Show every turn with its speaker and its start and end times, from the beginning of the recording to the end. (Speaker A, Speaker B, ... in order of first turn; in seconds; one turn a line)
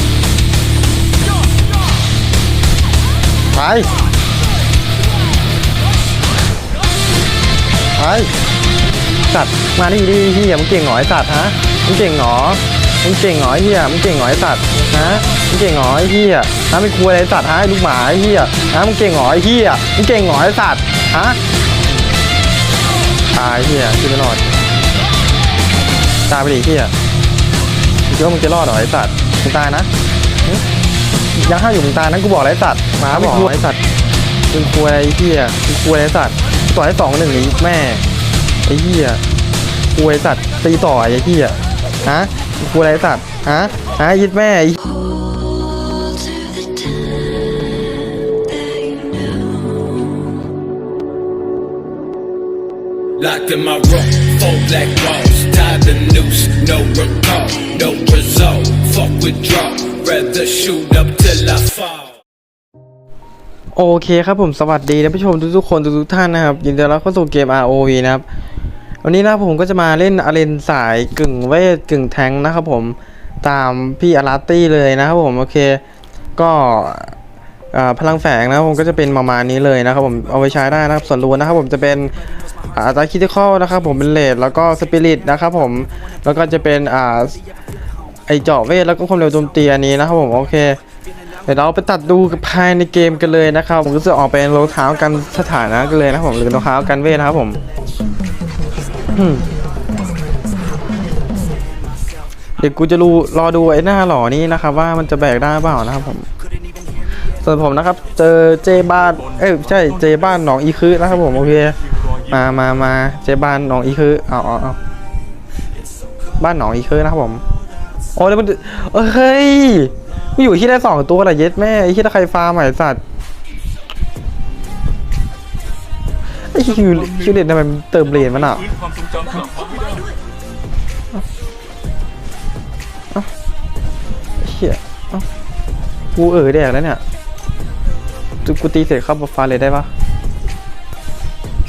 Speaker A: 3.5-3.9
Speaker A: 8.0-8.3
Speaker A: 9.3-21.4
Speaker A: 23.3-24.4
Speaker A: 26.3-26.9
Speaker A: 28.1-29.9
Speaker A: 31.3-33.8
Speaker A: 34.5-38.0
Speaker A: 38.6-39.2
Speaker A: 39.9-44.8
Speaker B: 44.8-47.4
Speaker B: 48.5-49.9
Speaker C: 53.2-62.1
Speaker A: 63.7-68.2
Speaker A: 69.0-75.8
Speaker A: 76.3-77.2
Speaker A: 77.7-82.1
Speaker A: 82.7-87.4
Speaker A: 88.3-90.8
Speaker A: 91.5-97.6
Speaker A: 99.1-99.5
Speaker A: 102.6-106.2
Speaker A: 107.4-111.8
Speaker D: 108.8-110.4
Speaker D: 111.2-112.5
Speaker A: 112.3-114.8
Speaker A: 116.4-117.4
Speaker A: 118.1-123.0
Speaker A: 126.5-128.6
Speaker D: 126.7-127.5
Speaker D: 128.0-130.1
Speaker B: 129.4-130.1
Speaker A: 134.4-135.2
Speaker A: 136.1-137.0
Speaker A: 138.4-139.9